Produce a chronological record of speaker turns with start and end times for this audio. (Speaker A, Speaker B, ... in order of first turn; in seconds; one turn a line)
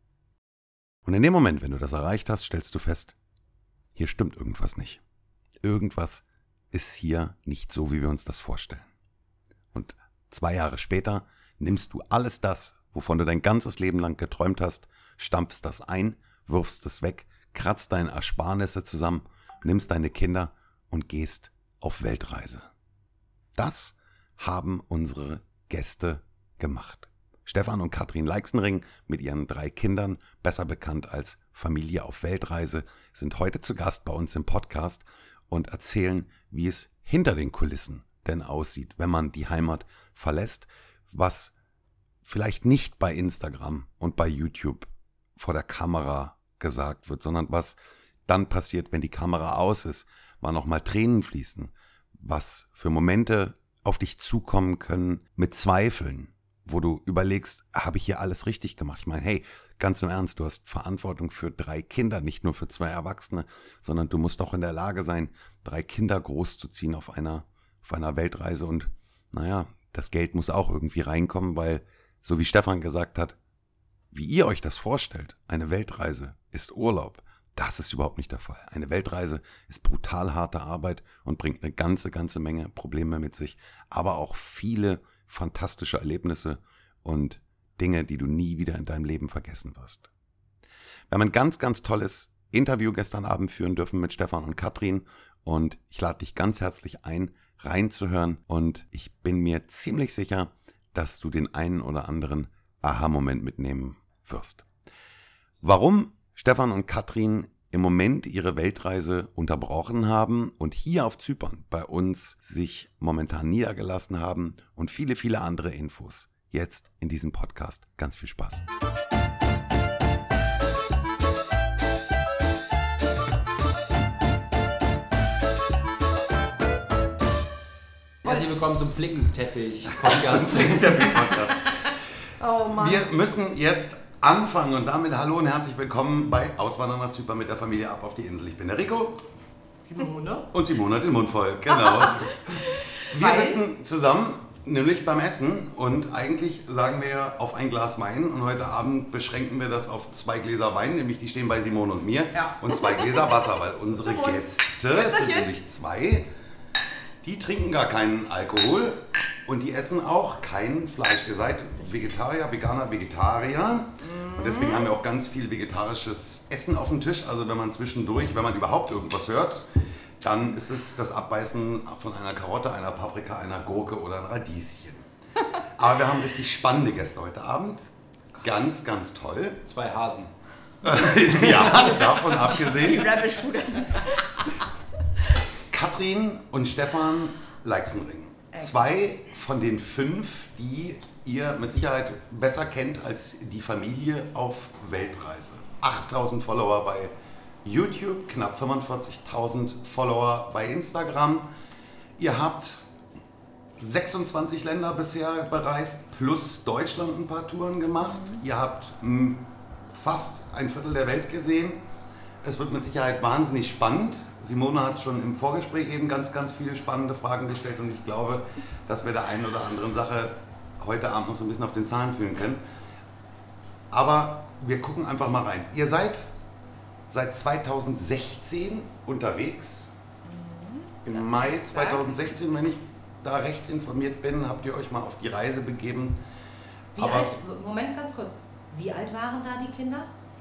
Speaker A: 1.1-3.1
Speaker A: 4.0-5.0
Speaker A: 5.6-8.9
Speaker A: 9.7-22.7
Speaker A: 23.6-41.5
Speaker A: 42.2-73.4
Speaker A: 74.1-90.1
Speaker A: 91.1-104.7
Speaker A: 105.6-118.6
Speaker B: 128.2-131.3
Speaker A: 129.9-131.9
Speaker C: 132.4-133.0
Speaker A: 132.8-139.2
Speaker D: 139.9-140.4
Speaker A: 140.5-142.4
Speaker A: 143.1-156.3
Speaker C: 152.5-153.1
Speaker C: 154.0-155.5
Speaker A: 157.2-169.7
Speaker C: 164.0-164.9
Speaker A: 170.2-175.1
Speaker A: 175.7-177.8
Speaker A: 178.4-179.6
Speaker B: 179.7-180.3
Speaker A: 180.8-183.1
Speaker C: 182.6-184.6
Speaker A: 185.7-197.1
Speaker A: 197.6-201.5
Speaker A: 202.2-202.8
Speaker A: 203.8-211.8
Speaker C: 208.0-208.4
Speaker A: 212.4-222.6
Speaker A: 223.9-226.3
Speaker A: 227.1-229.9
Speaker C: 230.3-232.1
Speaker A: 231.0-236.2
Speaker A: 236.9-237.3
Speaker D: 237.0-240.1